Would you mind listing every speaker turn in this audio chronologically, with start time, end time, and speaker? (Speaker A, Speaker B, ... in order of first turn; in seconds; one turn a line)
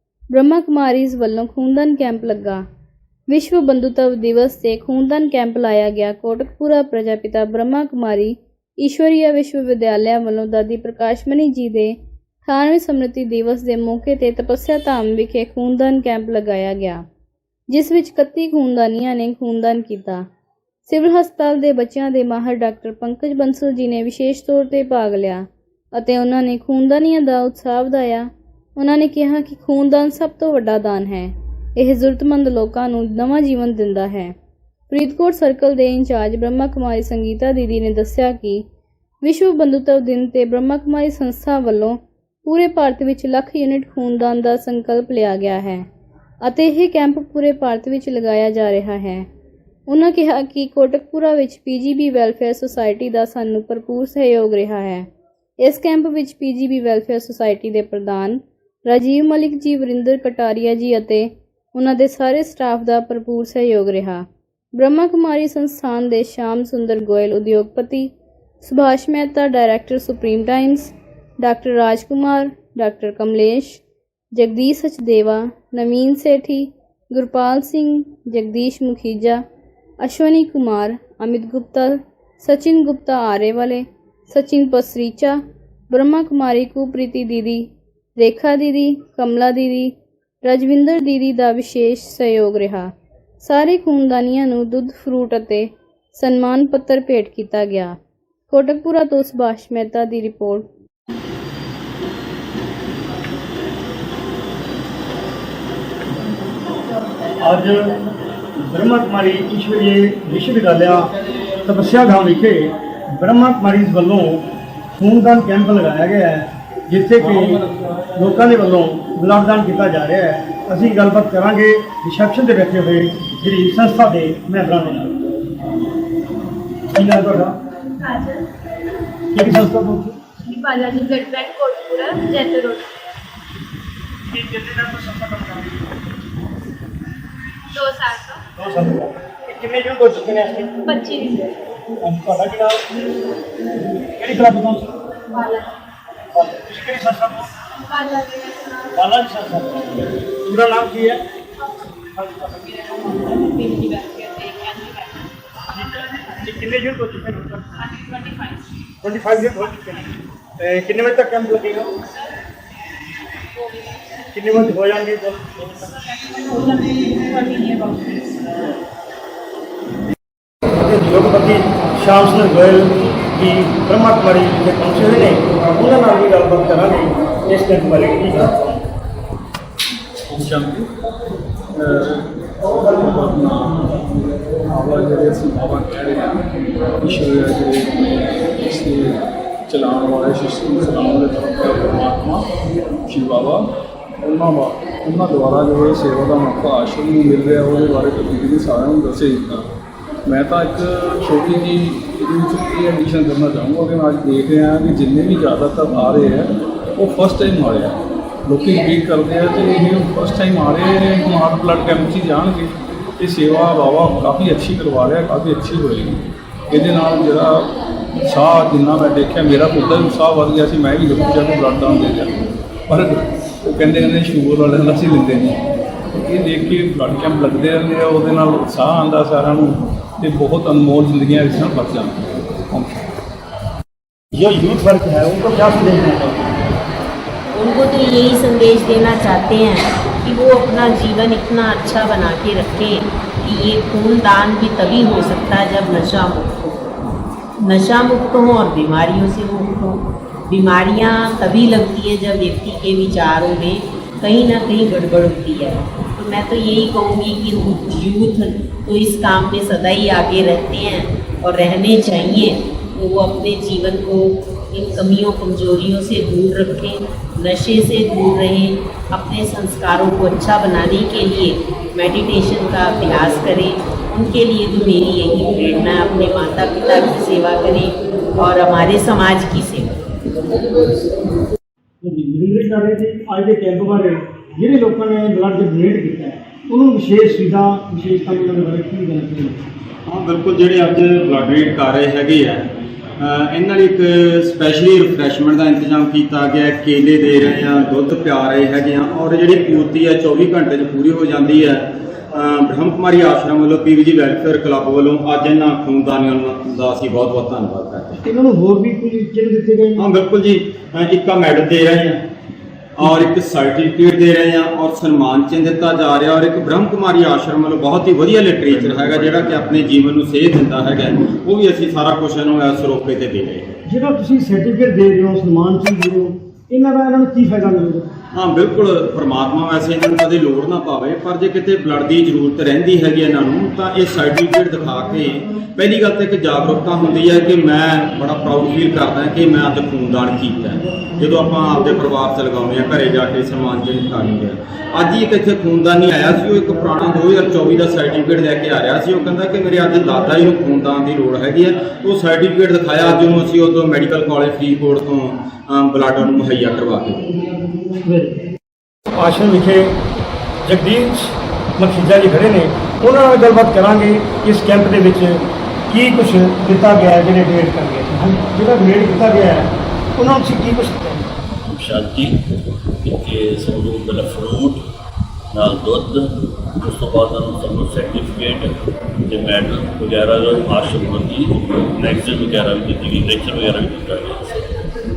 Speaker A: 0.3-2.6
Speaker A: 3.3-17.1
Speaker A: 17.7-20.2
Speaker A: 20.9-34.4
Speaker A: 34.9-38.6
Speaker A: 39.2-45.9
Speaker A: 46.4-49.3
Speaker A: 49.9-55.1
Speaker A: 55.6-73.8
Speaker A: 74.3-79.4
Speaker A: 80.0-98.0
Speaker A: 98.5-100.7
Speaker B: 107.4-108.0
Speaker B: 108.6-125.2
Speaker B: 126.9-127.6
Speaker C: 128.1-128.4
Speaker B: 129.3-130.2
Speaker C: 130.5-132.9
Speaker B: 134.3-136.0
Speaker C: 137.7-138.4
Speaker B: 138.6-140.8
Speaker C: 140.9-141.5
Speaker B: 142.0-142.9
Speaker B: 144.2-145.0
Speaker C: 145.3-145.7
Speaker B: 146.3-147.5
Speaker C: 147.9-148.7
Speaker B: 148.9-151.2
Speaker B: 152.2-152.9
Speaker C: 153.3-155.1
Speaker B: 155.7-157.8
Speaker C: 158.0-158.3
Speaker B: 159.0-161.9
Speaker B: 164.3-166.1
Speaker C: 166.5-168.2
Speaker B: 170.7-178.6
Speaker D: 180.3-180.9
Speaker D: 181.8-186.4
Speaker D: 187.0-192.5
Speaker D: 193.1-193.7
Speaker D: 194.2-199.7
Speaker D: 200.3-222.3
Speaker D: 222.9-225.6
Speaker D: 226.1-233.0
Speaker B: 234.3-236.6
Speaker E: 237.5-246.9
Speaker E: 247.7-280.0
Speaker B: 282.0-289.6
Speaker F: 290.1-292.7
Speaker F: 293.2-308.2
Speaker B: 308.2-310.1
Speaker F: 310.0-312.3
Speaker F: 313.0-323.7
Speaker D: 318.6-319.9
Speaker B: 323.9-328.1
Speaker F: 328.3-357.4
Speaker B: 358.0-358.5
Speaker B: 359.2-359.9
Speaker B: 360.6-371.3
Speaker G: 371.6-372.4
Speaker G: 373.0-374.8
Speaker G: 375.5-384.6